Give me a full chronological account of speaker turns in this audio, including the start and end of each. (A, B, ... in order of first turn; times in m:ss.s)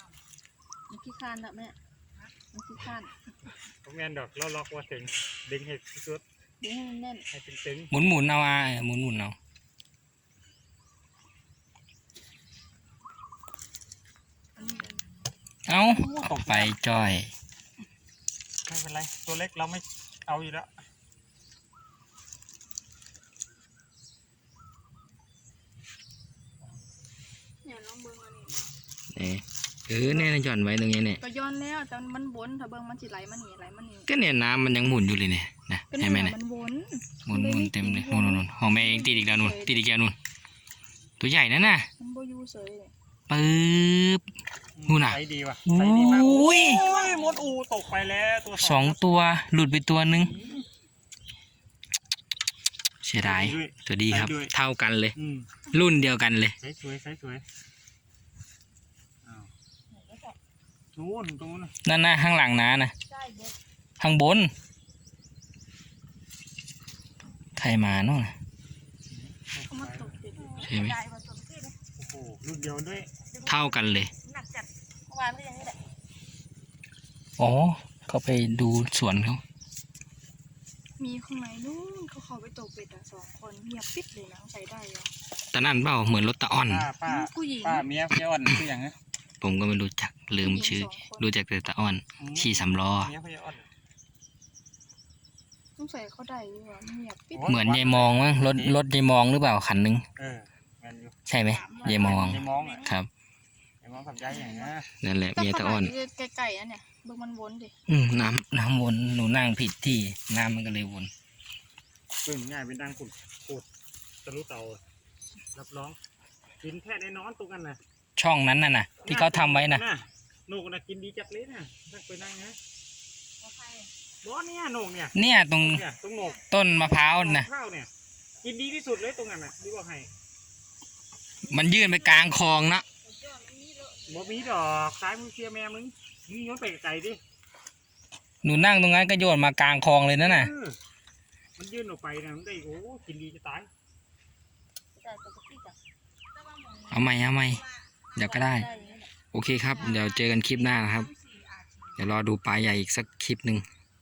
0:00.9-0:01.8 A
0:02.5-0:03.1 A
0:03.8-0:06.2 B
0:06.6-0:07.2 A
0:07.3-0:07.9 B
0:07.9-0:09.4 C
0:14.6-0:15.0 D
0:15.7-0:17.3 C
0:15.8-0:16.7 B
0:18.6-0:20.7 B
0:27.6-0:28.7 D
0:29.1-0:31.2 C
0:31.2-0:34.1 D
0:34.1-0:36.4 C
0:35.9-0:39.8 D
0:37.3-0:40.2 C
0:41.2-0:41.9 C
0:42.0-0:42.9 D
0:43.3-0:44.2 C
0:44.8-0:49.1 B
0:44.9-0:46.9 C
0:46.4-0:47.5 D
0:48.6-0:50.3 C
0:50.1-0:50.7 B
0:53.0-0:55.2 C
0:53.2-0:54.5 B
0:55.2-0:55.5 B
0:55.7-0:56.6 C
0:56.6-0:57.4 B
0:59.2-0:59.5 B
0:59.9-1:00.4 A
1:00.9-1:01.7 B
1:01.8-1:02.9 C
1:03.1-1:03.6 A
1:04.0-1:04.5 C
1:07.6-1:08.3 C
1:09.1-1:10.2 B
1:09.7-1:10.8 D
1:10.4-1:11.8 A
1:10.6-1:11.0 C
1:12.0-1:13.1 B
1:13.3-1:15.8 A
1:13.5-1:14.1 C
1:17.4-1:19.4 C
1:21.0-1:25.1 D
1:25.5-1:26.9 C
1:26.7-1:29.0 B
1:27.1-1:27.8 D
1:29.4-1:33.1 C
1:30.4-1:31.2 D
1:32.2-1:33.7 B
1:35.8-1:37.5 D
1:37.3-1:38.8 B
1:37.5-1:40.0 C
1:40.2-1:41.2 B
1:41.3-1:43.1 C
1:41.5-1:43.0 A
1:41.8-1:42.9 B
1:43.8-1:44.9 B
1:44.3-1:44.7 D
1:45.0-1:45.9 C
1:45.4-1:47.7 D
1:47.9-1:51.1 C
1:52.2-1:53.7 B
1:54.2-1:54.8 B
1:55.5-1:56.0 B
1:56.6-1:57.8 B
1:58.2-1:59.8 C
1:59.0-2:02.6 B
2:03.4-2:03.9 A
2:04.2-2:07.9 B
2:05.2-2:05.8 C
2:06.5-2:07.5 C
2:08.4-2:10.1 B
2:11.4-2:12.5 D
2:11.5-2:12.8 C
2:13.0-2:14.6 D
2:14.1-2:17.2 B
2:18.4-2:20.5 C
2:20.2-2:20.8 B
2:21.6-2:23.7 B
2:25.0-2:25.8 A
2:26.4-2:27.0 D
2:26.9-2:27.6 C
2:28.1-2:29.1 A
2:28.2-2:28.7 C
2:28.6-2:29.0 D
2:29.3-2:31.1 C
2:29.7-2:30.2 D
2:29.8-2:30.1 A
2:32.0-2:33.6 C